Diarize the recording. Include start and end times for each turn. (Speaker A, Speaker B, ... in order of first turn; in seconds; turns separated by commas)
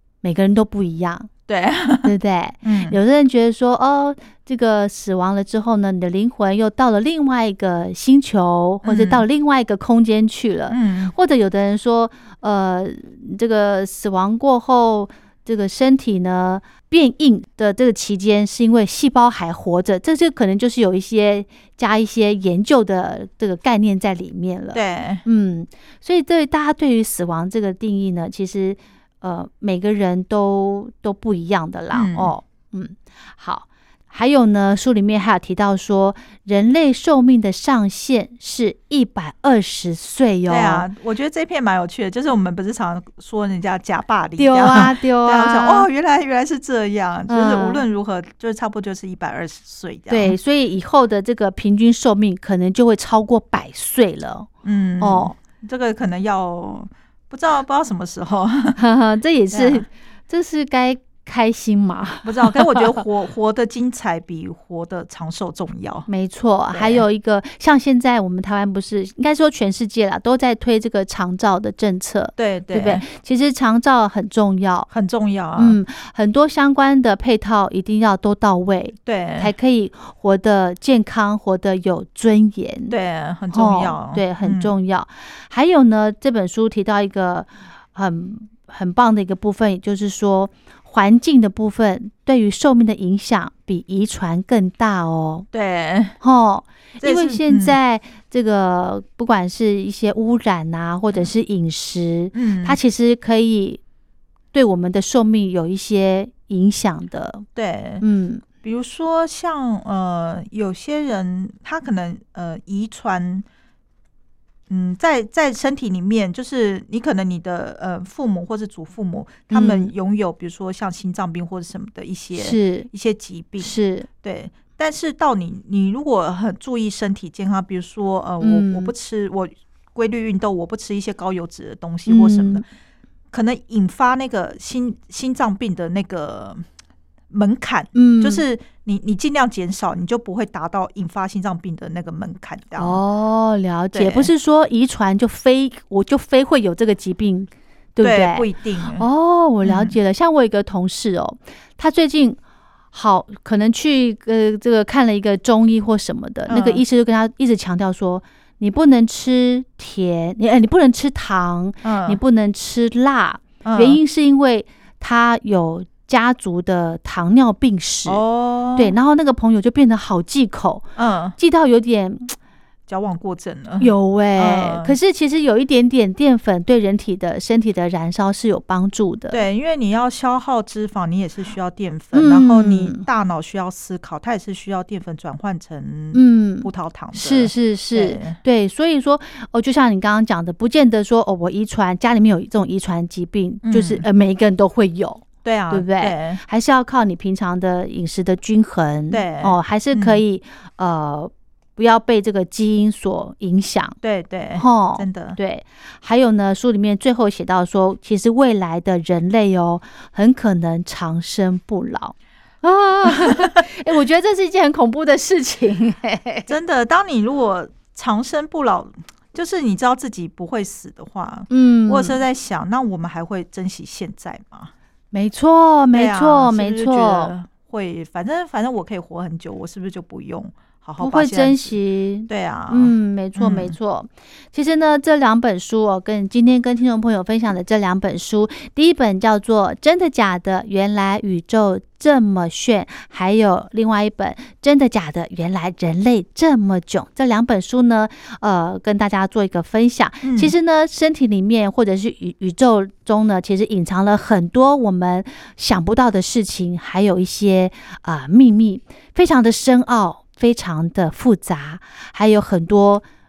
Speaker A: 0.2-1.3, Speaker B: 1.5-3.0, Speaker A: 2.0-40.9, Speaker B: 8.8-9.2, Speaker B: 10.7-11.1, Speaker B: 24.7-25.2, Speaker B: 31.9-32.3, Speaker B: 40.5-50.4, Speaker A: 44.4-45.9, Speaker A: 47.3-47.8, Speaker A: 50.1-54.5, Speaker B: 54.6-58.8, Speaker A: 55.0-55.4, Speaker A: 58.8-63.0, Speaker B: 59.5-59.9, Speaker B: 62.2-66.1, Speaker A: 66.1-74.9, Speaker B: 66.7-67.0, Speaker B: 72.4-73.0, Speaker B: 74.9-75.8, Speaker A: 75.6-83.0, Speaker B: 79.0-79.5, Speaker B: 82.9-84.7, Speaker A: 83.5-95.5, Speaker B: 95.5-96.2, Speaker A: 96.2-103.8, Speaker B: 97.0-97.8, Speaker B: 102.3-102.8, Speaker A: 104.5-107.5, Speaker B: 107.6-108.0, Speaker A: 108.0-108.5, Speaker B: 108.6-113.5, Speaker B: 114.7-132.6, Speaker A: 119.5-119.9, Speaker A: 122.3-122.9, Speaker A: 123.6-124.1, Speaker A: 128.4-128.9, Speaker A: 132.1-132.6, Speaker B: 133.3-136.6, Speaker B: 137.3-143.0, Speaker A: 137.9-138.4, Speaker A: 142.8-152.4, Speaker B: 143.9-144.3, Speaker B: 148.0-149.1, Speaker B: 149.6-150.0, Speaker A: 152.9-168.2, Speaker B: 156.5-156.8, Speaker B: 161.8-162.2, Speaker B: 163.6-164.0, Speaker B: 168.1-168.9, Speaker A: 168.8-170.8, Speaker B: 171.0-171.4, Speaker A: 171.4-172.3, Speaker B: 172.9-175.0, Speaker A: 173.8-179.4, Speaker B: 179.3-188.4, Speaker A: 182.1-183.0, Speaker A: 186.1-204.0, Speaker B: 193.6-194.1, Speaker B: 195.4-196.4, Speaker B: 199.1-200.2, Speaker B: 204.0-205.4, Speaker A: 204.6-216.5, Speaker B: 213.2-213.6, Speaker B: 216.5-224.7, Speaker A: 221.5-222.2, Speaker A: 225.1-227.3, Speaker B: 225.9-233.8, Speaker A: 231.0-263.0, Speaker B: 250.2-250.5